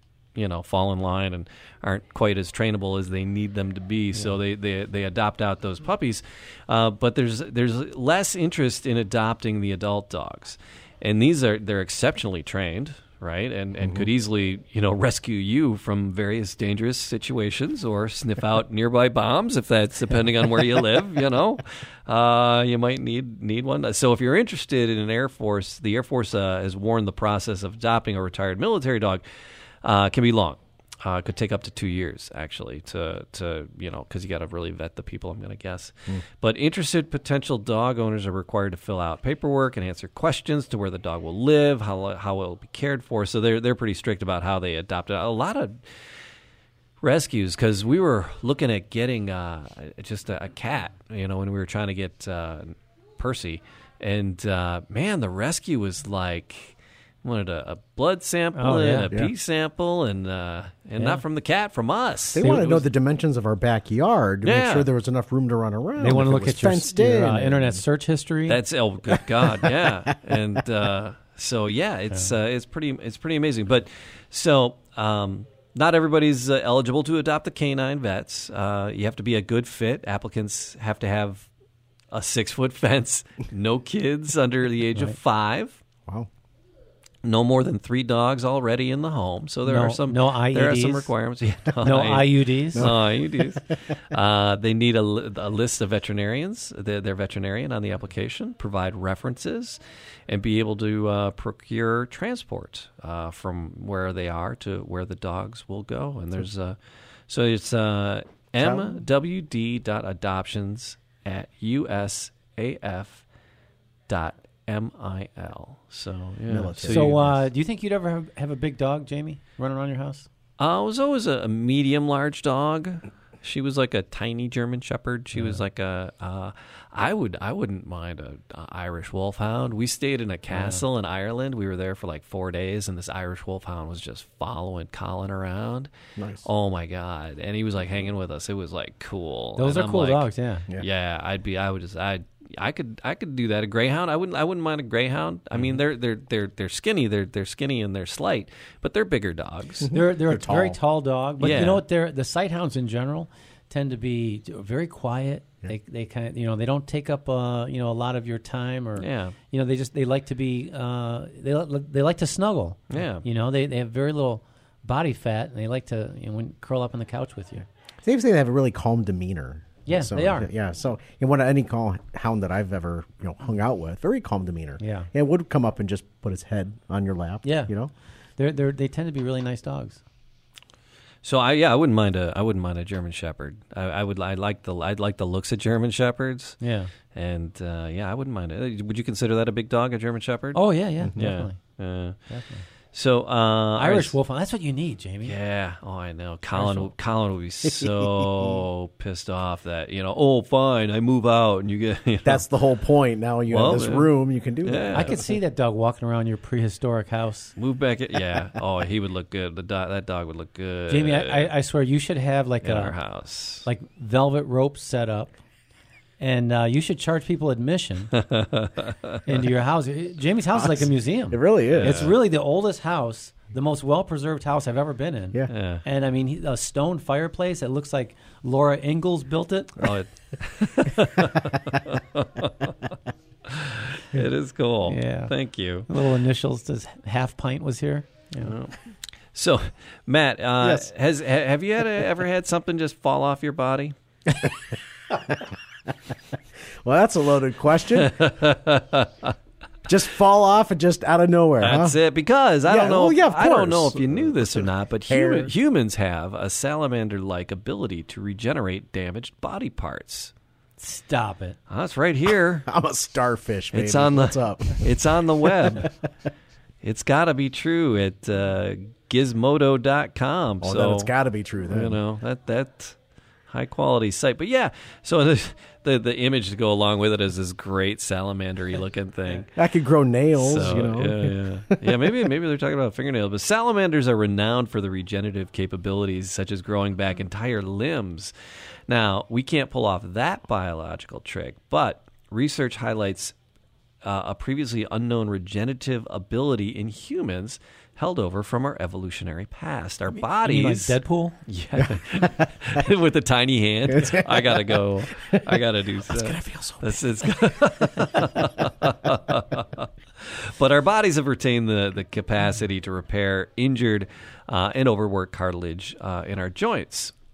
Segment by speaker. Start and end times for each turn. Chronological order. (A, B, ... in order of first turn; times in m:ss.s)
0:00.4-0:29.2 A
0:13.8-0:14.1 B
0:29.8-0:45.8 A
0:47.0-1:02.8 A
0:58.6-0:59.1 C
1:02.3-1:07.8 B
1:02.4-1:02.7 C
1:04.4-1:04.9 A
1:06.0-1:08.6 C
1:08.5-1:21.5 A
1:09.2-1:10.2 B
1:22.1-1:25.8 A
1:27.2-1:46.8 A
1:29.7-1:31.1 C
1:31.8-1:32.9 C
1:32.8-1:33.6 B
1:47.3-1:53.2 A
1:48.6-1:49.0 B
1:54.1-1:57.3 A
1:56.5-1:57.3 B
1:56.9-2:00.3 C
2:00.6-2:15.9 A
2:10.5-2:10.8 C
2:16.2-2:16.5 B
2:16.4-2:29.9 A
2:19.6-2:20.7 C
2:29.8-2:30.8 B
2:29.9-2:47.7 C
2:31.4-2:31.8 A
2:39.0-2:39.4 A
2:42.9-2:43.2 A
2:48.0-2:57.9 B
2:49.9-2:50.5 C
2:54.8-2:55.1 C
2:57.4-2:57.7 C
2:58.4-3:00.0 C
3:01.2-3:06.6 A
3:06.6-3:06.9 C
3:07.1-3:10.6 A
3:10.5-3:11.6 C
3:11.2-3:12.2 A
3:12.3-3:12.6 C
3:12.9-3:14.1 A
3:13.8-3:15.4 C
3:15.2-3:22.4 A
3:16.6-3:16.9 C
3:17.7-3:18.6 B
3:22.2-3:25.2 B
3:23.5-3:25.2 A
3:24.9-3:27.6 C
3:27.6-3:31.5 A
3:30.9-3:33.0 C
3:32.6-3:33.7 A
3:33.6-3:35.4 C
3:36.2-3:38.1 C
3:38.2-3:39.2 A
3:39.3-3:49.9 C
3:40.6-3:42.1 B
3:41.7-3:42.2 A
3:45.5-3:45.8 A
3:49.8-3:52.8 A
3:53.5-3:55.9 A
3:54.9-3:55.3 C
3:55.9-3:58.5 C
3:58.4-3:58.8 A
3:59.3-4:04.0 A
4:04.3-4:05.5 B
4:06.8-4:08.3 B
4:08.0-4:09.3 A
4:09.9-4:12.0 B
4:11.6-4:20.3 A
4:12.7-4:15.5 B
4:20.8-4:21.6 C
4:21.7-4:22.7 A
4:22.7-4:25.9 B
4:23.7-4:25.9 A
4:26.8-4:31.1 A
4:30.6-4:32.0 B
4:31.6-4:33.0 A
4:33.5-4:39.6 A
4:39.6-4:42.2 B
4:40.4-4:48.3 A
4:48.9-4:53.3 A
4:54.0-5:17.1 A
5:00.4-5:01.4 C
5:01.8-5:02.5 B
5:03.9-5:08.4 B